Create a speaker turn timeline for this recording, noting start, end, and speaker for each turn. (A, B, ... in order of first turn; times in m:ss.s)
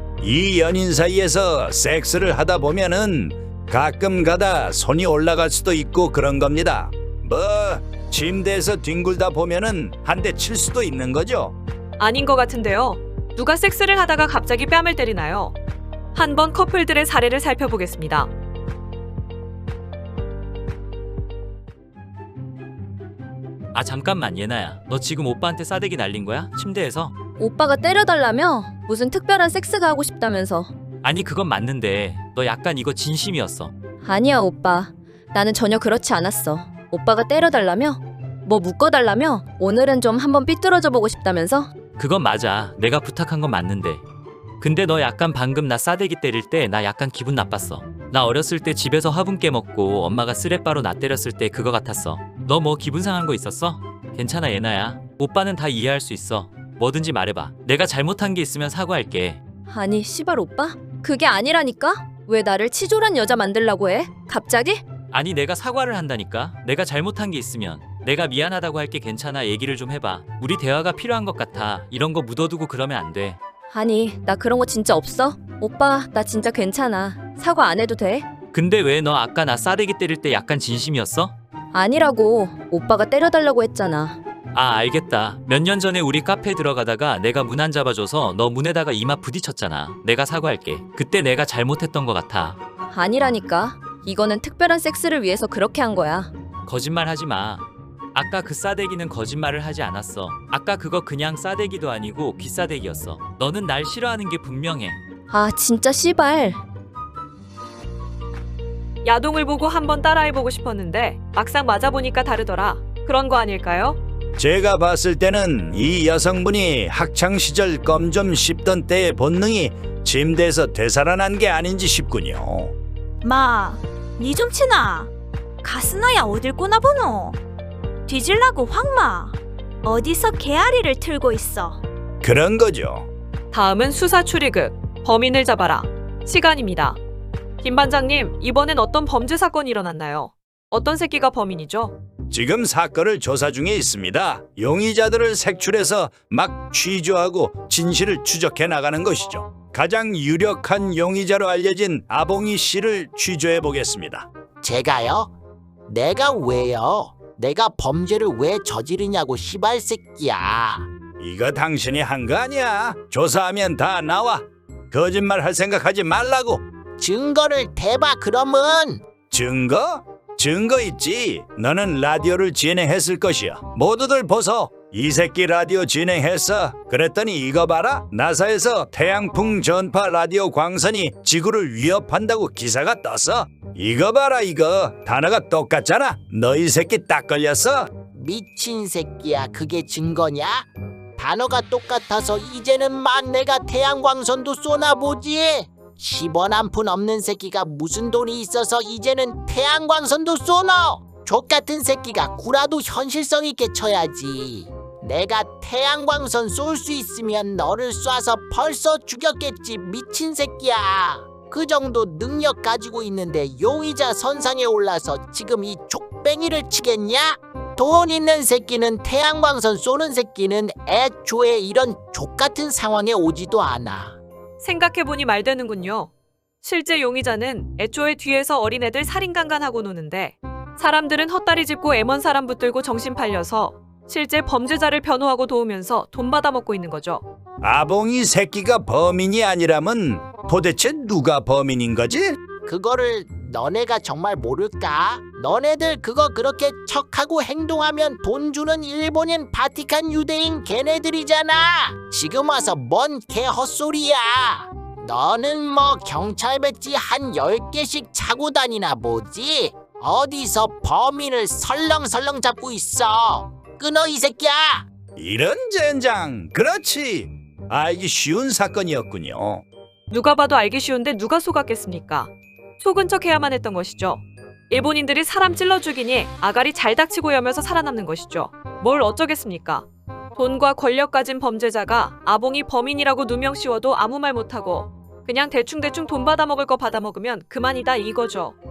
0:00.2-0:11.6 A
0:12.0-0:15.6 B
0:16.1-0:18.3 B
0:23.7-0:27.1 C
0:27.4-0:30.7 D
0:31.0-0:33.7 C
0:34.0-0:41.7 D
0:42.0-0:44.0 C
0:44.6-0:59.4 C
0:59.7-1:04.8 D
1:05.1-1:13.4 C
1:13.7-1:18.3 D
1:18.5-1:21.4 C
1:21.7-1:24.2 D
1:24.5-1:32.6 C
1:32.9-1:36.3 D
1:36.7-1:45.0 C
1:45.3-1:46.6 D
1:49.0-1:54.0 B
1:54.4-2:02.8 A
2:03.2-2:05.1 E
2:05.6-2:07.4 E
2:08.1-2:09.3 E
2:09.8-2:11.8 E
2:12.2-2:13.1 A
2:13.5-2:17.0 B
2:17.6-2:22.0 B
2:22.3-2:34.3 A
2:34.6-2:35.3 F
2:35.9-2:40.9 F
2:41.2-2:46.6 A
2:47.0-2:49.0 F
2:49.3-3:07.9 A
3:08.1-3:44.2 F
3:44.6-3:46.1 B
3:46.6-3:57.2 B
3:57.6-4:02.4 A
4:02.6-4:24.9 F
4:25.2-4:29.6 A
4:30.1-4:48.6 B